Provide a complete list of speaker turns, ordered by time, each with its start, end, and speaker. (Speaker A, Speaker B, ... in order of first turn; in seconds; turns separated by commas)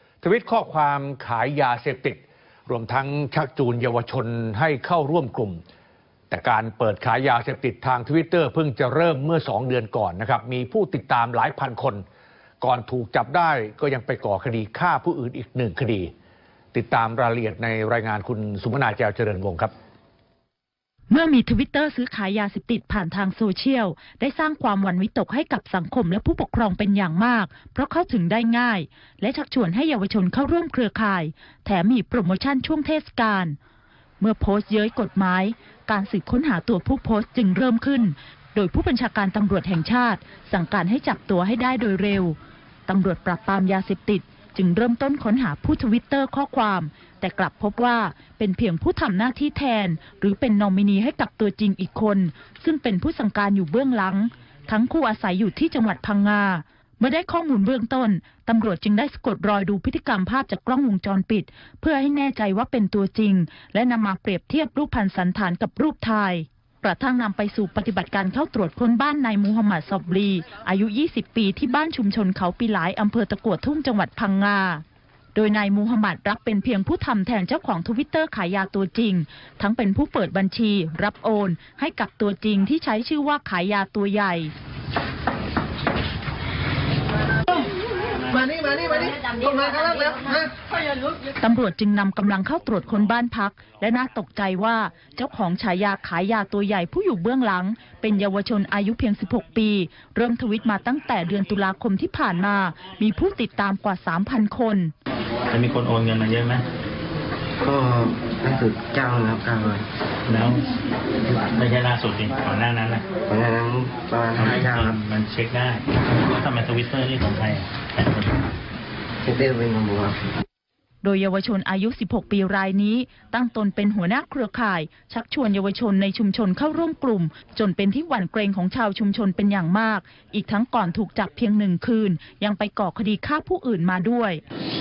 Speaker A: 0.2-5.6, Speaker A: 6.3-12.0, Speaker A: 12.6-16.1, Speaker A: 16.7-19.7, Speaker B: 21.1-33.5, Speaker B: 34.2-42.4, Speaker B: 42.9-74.8, Speaker B: 75.3-84.5, Speaker B: 91.4-104.9, Speaker C: 105.5-106.6, Speaker D: 107.6-109.8, Speaker C: 110.3-110.7, Speaker C: 111.5-113.0, Speaker D: 113.3-115.0, Speaker C: 114.3-118.4, Speaker D: 119.2-120.2, Speaker B: 121.0-134.4